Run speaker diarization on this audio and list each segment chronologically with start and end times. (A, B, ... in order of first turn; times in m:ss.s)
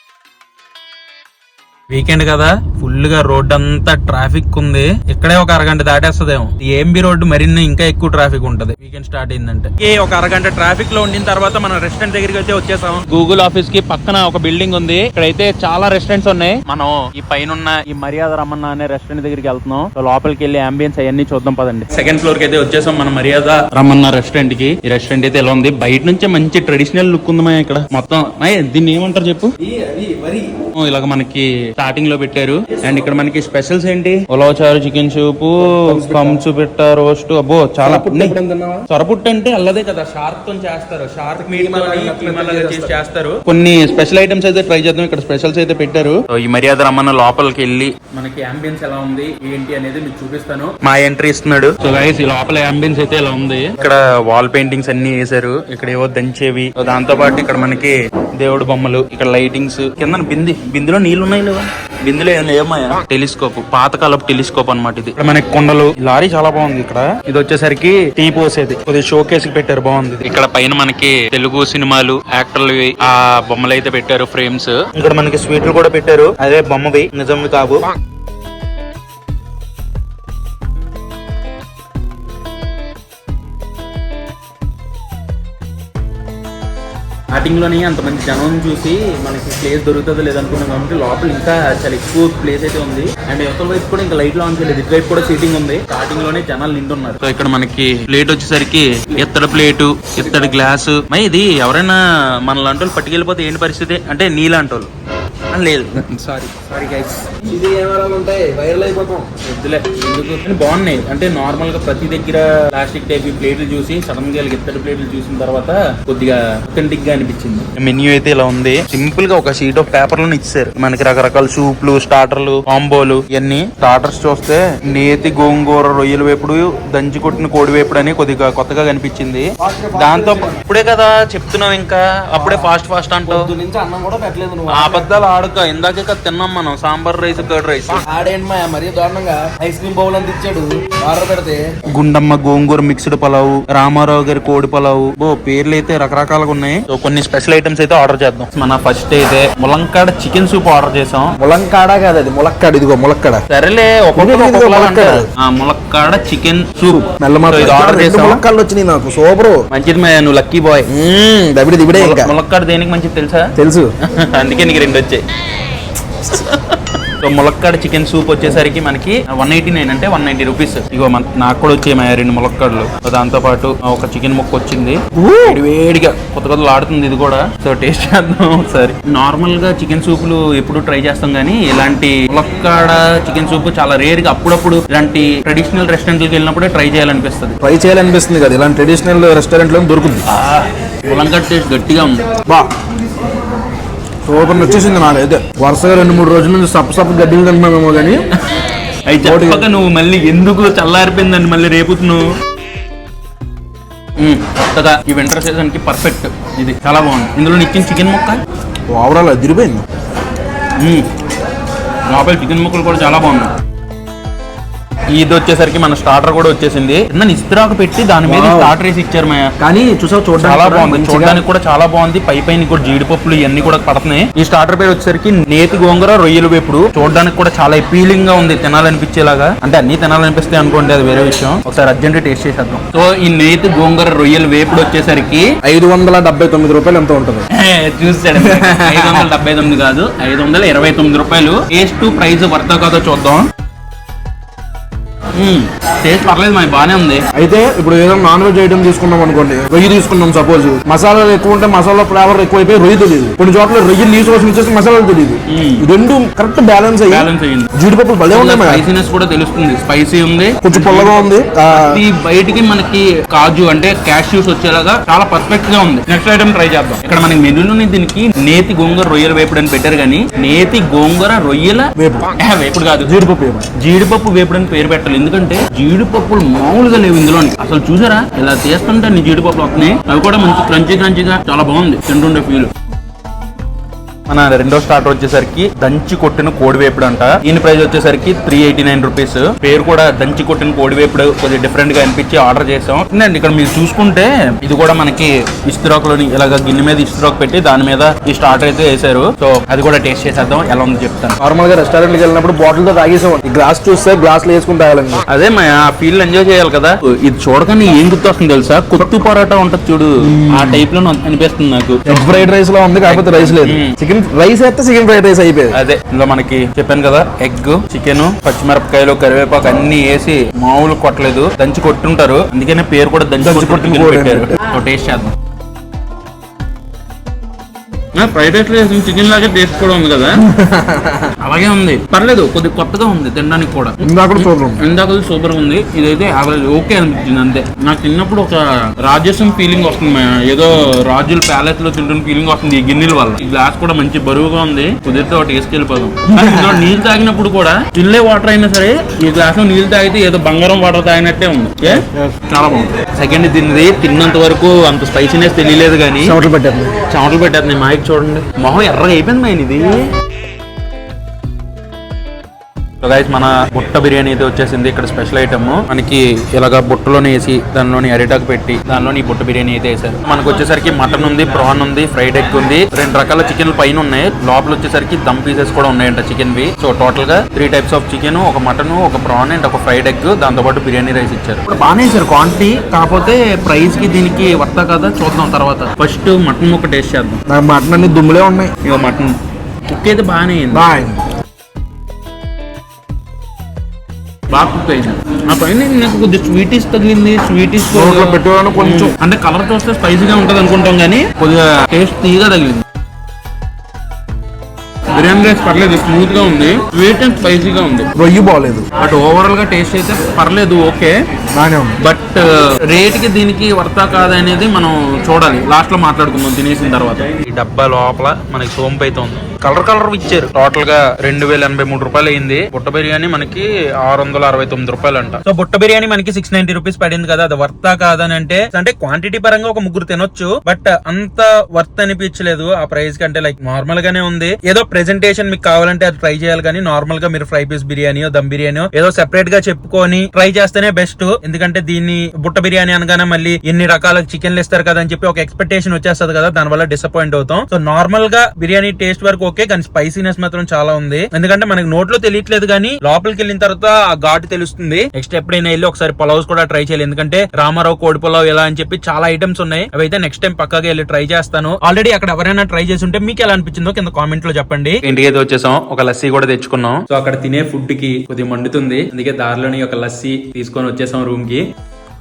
0:01.9-0:29.5 A
0:29.6-0:30.6 B
0:30.7-0:38.3 A
0:35.7-0:36.4 B
0:37.8-0:38.9 B
0:38.9-1:17.8 A
0:41.3-0:42.9 B
1:27.3-1:44.9 A
1:45.5-1:47.2 A
1:47.4-1:49.3 B
1:49.4-2:09.4 A
2:09.6-2:10.6 B
2:10.0-2:13.5 A
2:12.4-2:12.7 B
2:13.2-2:15.2 B
2:14.7-2:18.0 A
2:17.9-2:21.6 B
2:21.9-2:31.3 A
2:31.4-2:33.4 B
2:33.5-2:38.4 A
2:34.2-2:35.3 B
2:36.9-2:39.6 B
2:39.7-2:40.9 A
2:40.9-2:42.3 B
2:41.9-2:43.4 A
2:43.6-2:43.9 B
2:44.0-2:45.2 A
2:46.2-3:07.6 A
2:55.1-2:55.6 B
3:07.6-3:10.2 B
3:10.2-3:12.2 A
3:14.2-3:18.2 B
3:19.1-3:22.3 A
3:19.2-3:19.6 B
3:24.2-3:28.4 A
3:28.9-3:29.8 B
3:30.8-3:31.0 A
3:32.1-3:33.5 A
3:35.1-3:39.5 A
3:38.2-3:38.7 B
3:39.6-3:41.4 B
3:40.4-3:55.4 A
3:55.6-3:57.4 B
3:57.5-4:03.4 A
3:58.4-3:59.3 B
4:05.3-4:07.2 A
4:07.3-4:18.8 B
4:15.5-4:15.8 A
4:17.1-4:17.7 A
4:18.3-4:33.1 A
4:20.6-4:22.0 B
4:32.0-4:32.3 B
4:33.0-4:33.7 B
4:33.8-4:42.7 A
4:44.3-5:01.4 A
5:01.4-5:05.2 B
5:05.3-5:12.5 A
5:10.2-5:10.8 B
5:12.1-5:15.8 B
5:13.0-5:13.9 A
5:15.7-5:25.3 A
5:23.4-5:24.6 B
5:28.1-5:30.4 A
5:30.4-5:31.3 B
5:31.4-5:56.4 A
5:34.0-5:34.8 B
5:46.3-5:46.9 B
5:51.9-5:52.3 B
5:56.2-5:57.0 B
5:57.0-6:00.0 A
6:03.0-6:27.4 A
6:27.5-6:28.7 B
6:28.8-6:29.3 A
6:29.9-6:30.8 A
6:30.7-6:31.2 B
6:34.5-6:42.8 A
6:37.9-6:39.2 B
6:45.1-6:48.1 A
6:48.2-6:48.8 B
6:49.0-6:51.1 A
6:51.5-6:52.0 B
6:52.0-7:51.6 A